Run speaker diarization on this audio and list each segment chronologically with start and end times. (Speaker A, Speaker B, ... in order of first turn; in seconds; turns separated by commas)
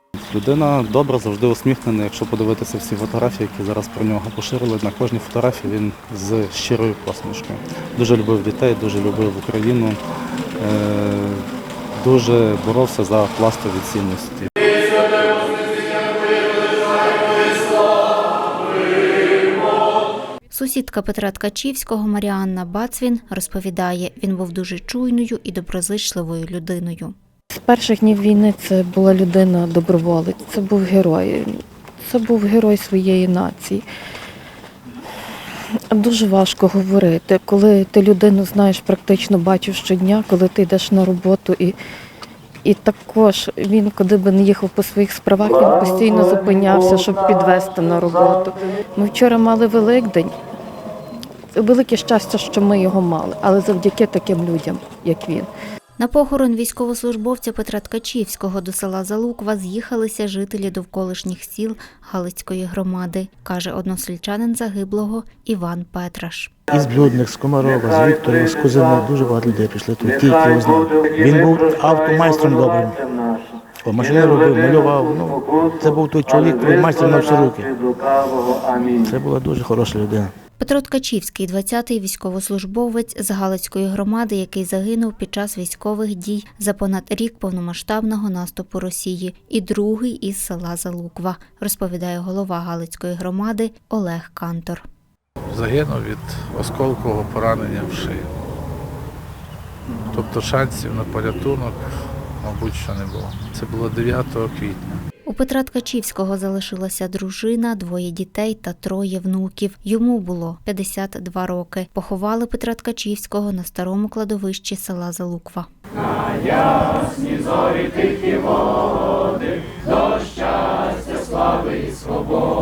Speaker A: 0.3-10.0, Speaker A: 10.6-11.4, Speaker A: 12.0-15.7, Speaker B: 20.5-27.1, Speaker C: 27.6-33.9, Speaker C: 35.7-41.8, Speaker C: 42.6-50.4, Speaker C: 51.5-55.5, Speaker B: 56.0-66.5, Speaker D: 66.7-73.0, Speaker D: 73.8-77.8, Speaker D: 78.7-80.3, Speaker B: 80.6-94.9, Speaker E: 95.5-98.3, Speaker E: 100.1-101.8, Speaker E: 102.4-104.9, Speaker B: 105.3-115.7, Speaker B: 116.3-118.7, Speaker B: 120.0-122.2